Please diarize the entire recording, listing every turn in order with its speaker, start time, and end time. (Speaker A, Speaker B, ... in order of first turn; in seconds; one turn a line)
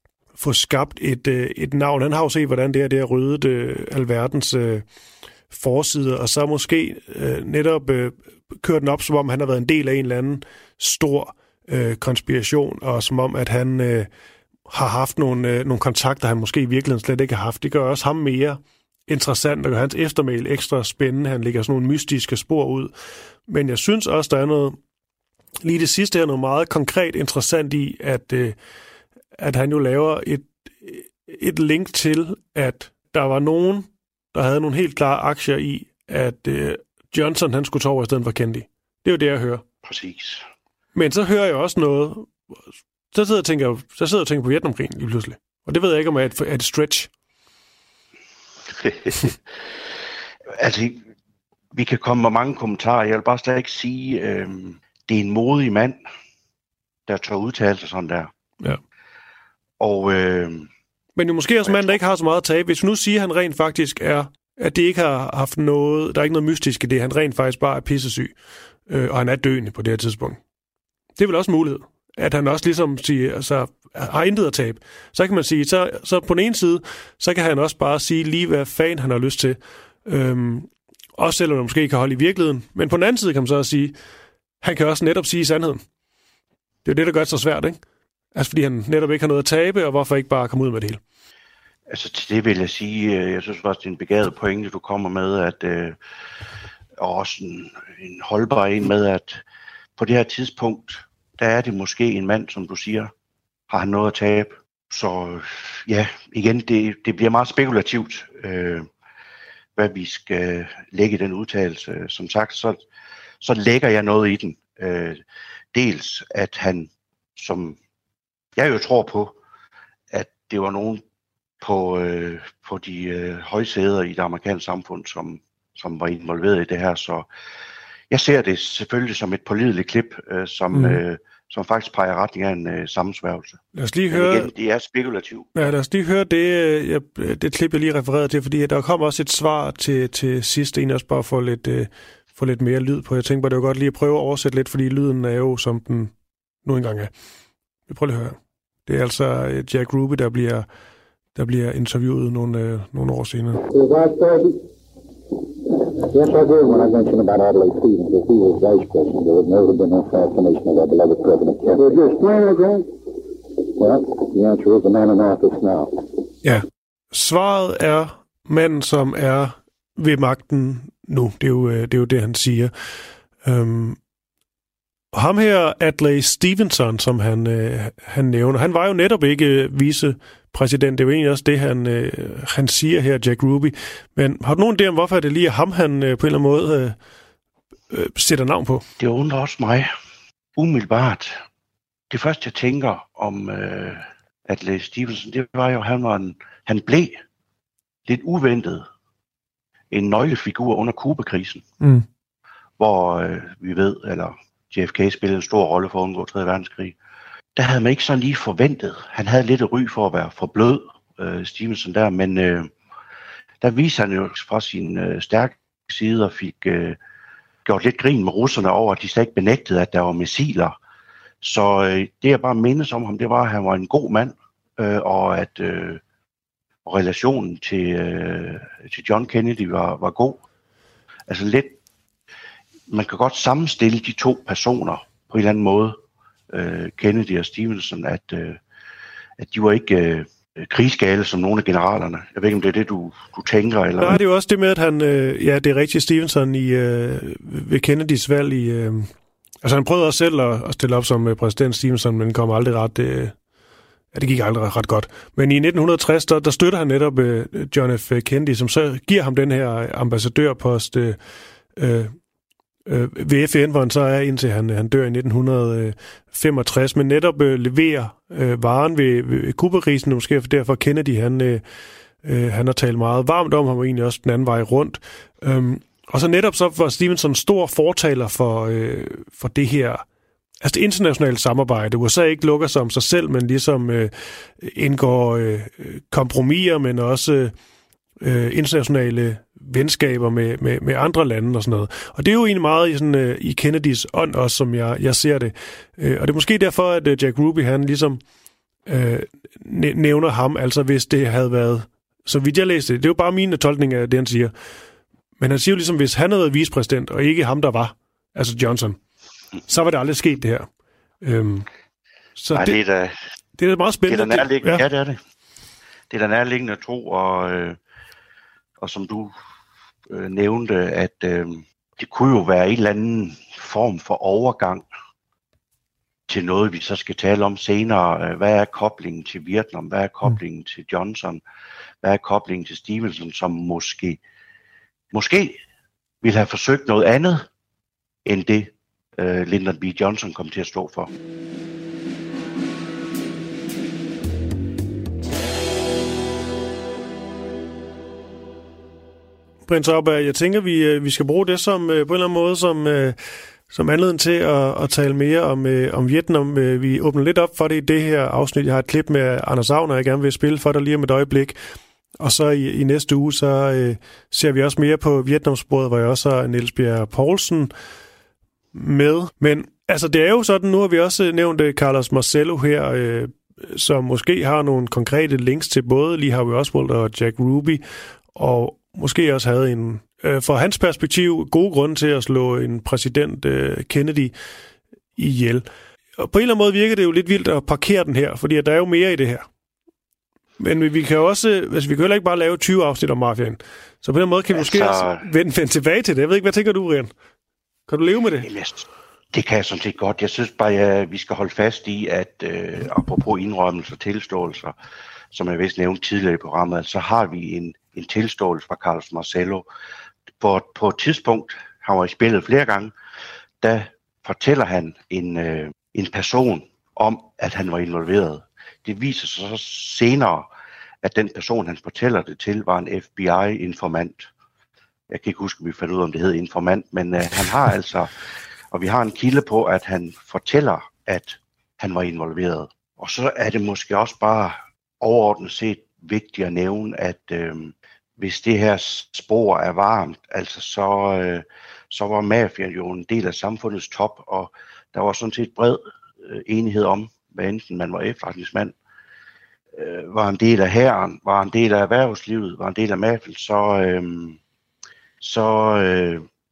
Speaker A: 0.3-4.8
Speaker A: 5.5-14.1
Speaker A: 14.7-22.9
Speaker A: 23.5-24.8
Speaker A: 25.6-28.6
Speaker A: 29.4-39.6
Speaker B: 39.8-40.5
Speaker A: 40.9-42.3
Speaker A: 43.1-47.1
Speaker B: 48.7-49.4
Speaker B: 50.5-51.0
Speaker B: 51.7-56.0
Speaker B: 57.1-58.3
Speaker B: 59.8-60.7
Speaker A: 61.1-68.3
Speaker B: 61.6-62.0
Speaker A: 68.9-70.4
Speaker A: 71.2-83.9
Speaker A: 84.6-85.8
Speaker A: 86.8-87.8
Speaker A: 88.3-91.0
Speaker B: 91.9-96.0
Speaker B: 97.0-99.4
Speaker B: 100.0-103.1
Speaker B: 103.7-108.9
Speaker B: 109.8-112.8
Speaker B: 113.4-115.2
Speaker B: 115.7-117.8
Speaker B: 118.5-119.4
Speaker B: 120.1-121.0
Speaker B: 121.6-127.3
Speaker B: 128.1-135.7
Speaker A: 130.7-131.0
Speaker A: 133.7-134.5
Speaker A: 135.6-146.1
Speaker A: 146.6-147.1
Speaker A: 147.9-150.7
Speaker A: 151.3-153.6
Speaker C: 153.7-154.6
Speaker C: 156.0-162.9
Speaker C: 163.8-165.9
Speaker A: 166.4-172.7
Speaker A: 173.4-174.0
Speaker A: 175.1-186.9
Speaker A: 187.9-188.8
Speaker B: 189.0-189.9
Speaker B: 190.6-191.4
Speaker B: 192.1-197.2
Speaker B: 198.1-198.9
Speaker B: 199.9-201.6
Speaker B: 202.8-207.0
Speaker B: 207.6-212.7
Speaker B: 213.6-217.0
Speaker B: 217.6-220.8
Speaker B: 221.4-226.0
Speaker B: 226.8-230.4
Speaker B: 231.3-231.8
Speaker B: 232.9-236.0
Speaker B: 236.5-238.6
Speaker B: 239.4-244.2
Speaker A: 244.0-249.1
Speaker A: 249.6-253.3
Speaker A: 254.1-261.2
Speaker A: 261.8-262.1
Speaker A: 262.9-271.6
Speaker A: 272.2-280.0
Speaker A: 280.6-287.5
Speaker A: 288.2-298.2
Speaker A: 298.9-304.5
Speaker A: 305.4-309.0
Speaker A: 309.7-310.7
Speaker A: 311.2-311.7
Speaker A: 312.4-312.8
Speaker B: 312.5-313.1
Speaker A: 313.6-314.8
Speaker B: 314.1-315.2
Speaker B: 316.1-317.8
Speaker B: 318.8-319.3
Speaker B: 320.1-324.9
Speaker B: 326.3-331.4
Speaker B: 332.0-334.2
Speaker B: 335.1-335.6
Speaker B: 336.2-337.5
Speaker B: 338.2-341.1
Speaker A: 349.7-353.1
Speaker A: 353.7-361.6
Speaker A: 362.2-367.7
Speaker A: 368.7-377.8
Speaker A: 378.3-384.3
Speaker A: 385.1-385.6
Speaker A: 386.2-389.4
Speaker A: 390.6-397.1
Speaker B: 394.5-395.2
Speaker A: 397.9-398.5
Speaker B: 398.4-404.7
Speaker B: 405.3-409.7
Speaker B: 410.4-412.9
Speaker B: 413.6-420.5
Speaker B: 421.0-424.3
Speaker B: 425.1-428.1
Speaker B: 428.7-448.7
Speaker B: 449.7-454.4
Speaker B: 455.2-456.2